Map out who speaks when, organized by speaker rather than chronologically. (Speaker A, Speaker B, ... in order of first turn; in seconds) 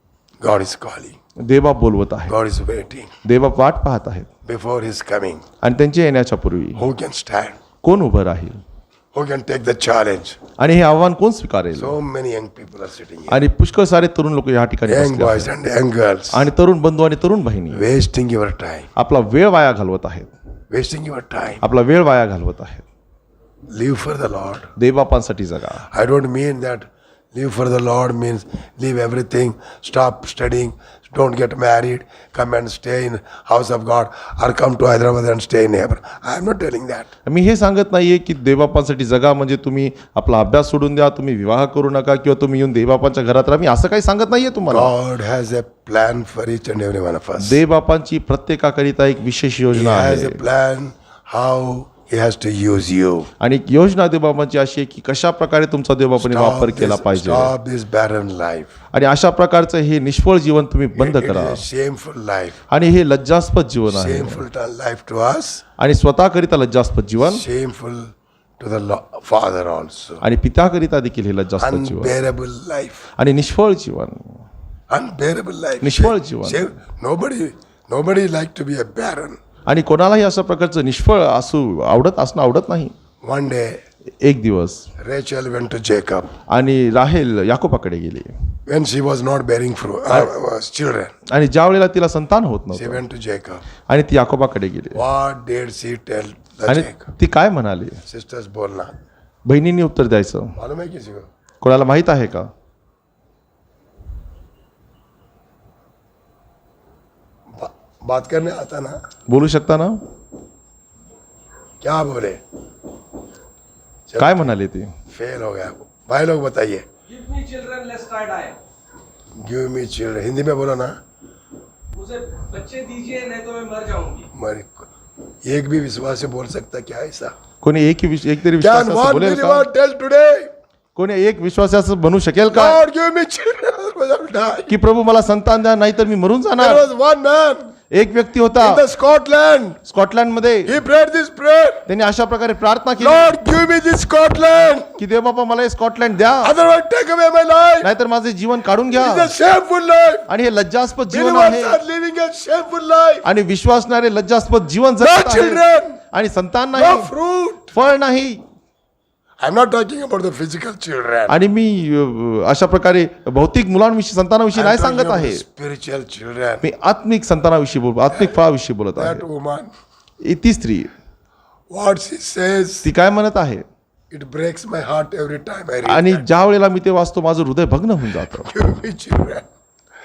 Speaker A: 0.4-1.1, 2.3-3.1, 4.5-5.4, 6.8-7.6, 9.1-10.4, 11.8-13.4, 14.9-16.5, 17.7-18.9, 20.7-21.6, 23.7-24.7, 25.9-37.1, 44.7-47.6, 49.7-53.3, 56.2-58.7, 61.0-62.6, 63.9-65.6, 67.2-70.2, 71.6-73.1, 74.9-79.4, 83.2-83.8, 85.0-86.3, 88.7-91.1, 92.7-93.6, 94.9-97.1, 98.1-98.9, 100.5-101.3, 107.5-109.0, 111.8-112.4, 114.1-114.5, 115.1-116.9, 119.3-121.0, 124.3-124.9, 125.4-127.3, 128.6-130.5, 132.5-134.7, 136.6-137.7, 138.6-139.8, 140.7-141.8, 143.0-144.9, 146.4-147.9, 148.9-150.3, 151.1-153.2, 155.0-156.0, 156.7-157.7, 159.4-161.4, 164.5-166.7, 168.1-169.7, 171.7-172.8, 174.1-176.2, 178.1-179.4
Speaker B: 1.4-2.3, 3.2-4.3, 5.6-6.8, 7.8-8.6, 10.6-12.0, 13.3-15.5, 16.3-17.8, 18.9-20.3, 21.6-22.8, 24.8-25.9, 37.2-44.9, 47.4-50.4, 53.4-57.5, 58.9-61.6, 62.7-64.4, 65.8-67.4, 70.2-72.2, 73.2-74.4, 75.8-76.7, 79.7-82.9, 84.2-84.9, 86.5-88.3, 91.3-93.0, 93.9-95.0, 96.7-98.0, 99.5-100.5, 101.6-102.5, 109.3-110.0, 114.2-114.9, 127.6-129.7, 130.9-132.8, 134.7-136.8, 137.9-138.8, 139.9-140.8, 141.9-143.3, 145.0-146.5, 147.8-149.3, 150.3-151.8, 153.2-157.1, 157.7-158.4, 161.3-165.4, 166.6-169.2, 170.2-170.9, 172.8-173.6, 175.8-178.5
Speaker C: 117.1-118.6, 121.9-124.3